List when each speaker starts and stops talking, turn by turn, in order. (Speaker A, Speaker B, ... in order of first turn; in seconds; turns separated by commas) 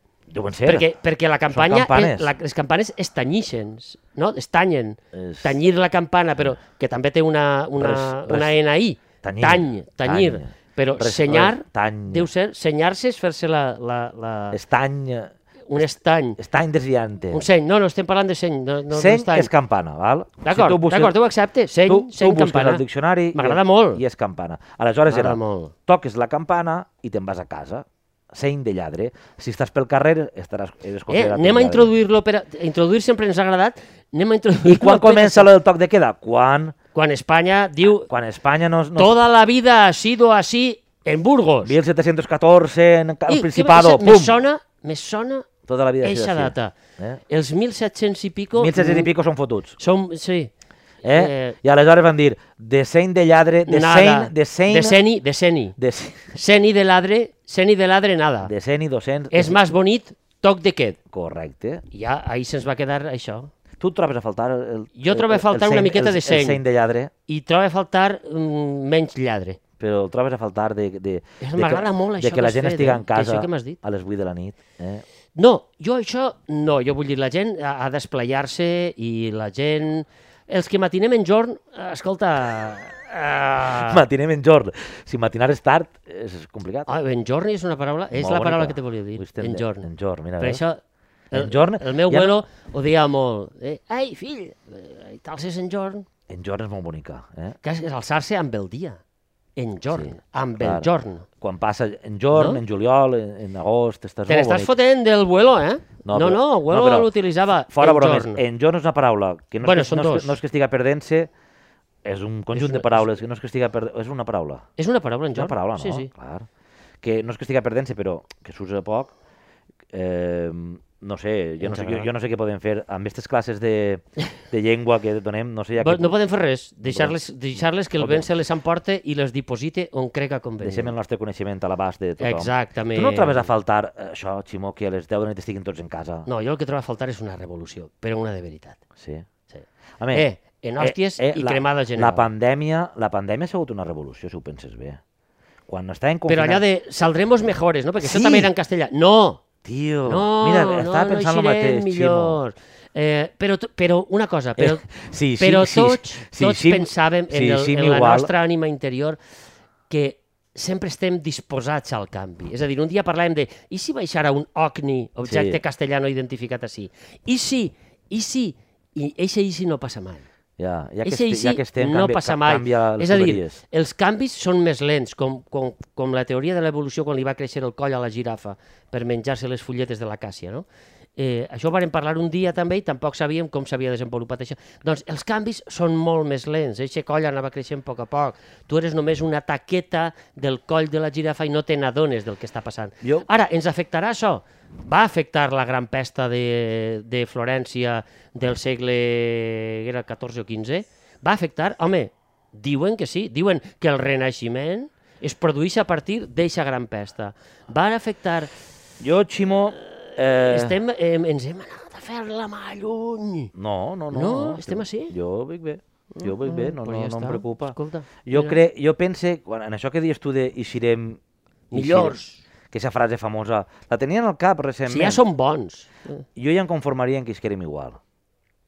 Speaker A: 0.3-0.9, Speaker B: 0.6-14.6, Speaker A: 1.5-2.3, Speaker A: 5.1-5.6, Speaker A: 7.8-8.6, Speaker A: 9.2-12.3, Speaker A: 14.5-17.4, Speaker B: 15.7-16.4, Speaker B: 17.3-19.5, Speaker A: 18.9-21.1, Speaker B: 20.4-24.0, Speaker A: 21.8-31.9, Speaker B: 25.1-25.7, Speaker B: 31.1-35.5, Speaker A: 34.6-36.8, Speaker B: 36.9-38.1, Speaker A: 38.1-39.1, Speaker B: 39.0-41.8, Speaker A: 41.6-44.4, Speaker B: 43.3-45.5, Speaker A: 45.6-47.2, Speaker B: 46.0-46.8, Speaker B: 47.3-49.1, Speaker A: 48.5-49.8, Speaker B: 49.8-50.5, Speaker A: 51.0-55.0, Speaker B: 51.1-51.5, Speaker B: 53.7-55.7, Speaker A: 55.8-56.3, Speaker B: 56.3-58.5, Speaker A: 58.4-59.6, Speaker B: 59.3-61.0, Speaker A: 61.1-61.8, Speaker B: 61.9-63.5, Speaker A: 63.8-67.1, Speaker B: 64.9-66.6, Speaker B: 67.3-69.6, Speaker A: 69.8-75.0, Speaker B: 71.4-73.8, Speaker B: 75.3-84.0, Speaker A: 83.6-86.9, Speaker B: 86.9-90.8, Speaker A: 88.1-90.6, Speaker B: 91.3-96.0, Speaker A: 91.3-92.4, Speaker A: 96.3-97.6, Speaker B: 97.6-99.0, Speaker B: 99.5-101.2, Speaker A: 99.9-100.9, Speaker A: 101.4-104.7, Speaker B: 102.3-102.6, Speaker B: 104.3-108.4, Speaker A: 106.0-107.1, Speaker A: 107.7-111.3, Speaker B: 109.6-110.4, Speaker A: 112.0-114.7, Speaker B: 112.5-113.1, Speaker B: 114.8-116.1, Speaker A: 115.3-116.5, Speaker A: 117.0-119.1, Speaker A: 119.9-126.2, Speaker B: 121.6-122.1, Speaker B: 125.8-130.9, Speaker A: 126.8-127.2, Speaker A: 128.0-128.3, Speaker A: 130.6-136.3, Speaker B: 132.2-133.5, Speaker B: 136.2-138.8, Speaker A: 139.0-139.3, Speaker B: 139.5-142.3, Speaker A: 140.0-140.2, Speaker A: 140.8-145.0, Speaker A: 145.7-146.6, Speaker B: 146.3-149.4, Speaker A: 148.0-148.5, Speaker A: 149.6-152.4, Speaker B: 150.1-154.8, Speaker A: 154.6-158.3, Speaker B: 155.4-159.2, Speaker B: 159.9-170.2, Speaker A: 165.2-165.6, Speaker A: 170.6-173.6, Speaker B: 171.0-208.5, Speaker A: 209.0-210.8, Speaker B: 210.3-213.5, Speaker A: 213.5-221.2, Speaker B: 214.1-215.1, Speaker B: 216.1-218.6, Speaker B: 221.7-222.4, Speaker A: 221.7-222.2, Speaker A: 222.7-225.2, Speaker B: 224.9-226.2, Speaker A: 226.3-228.0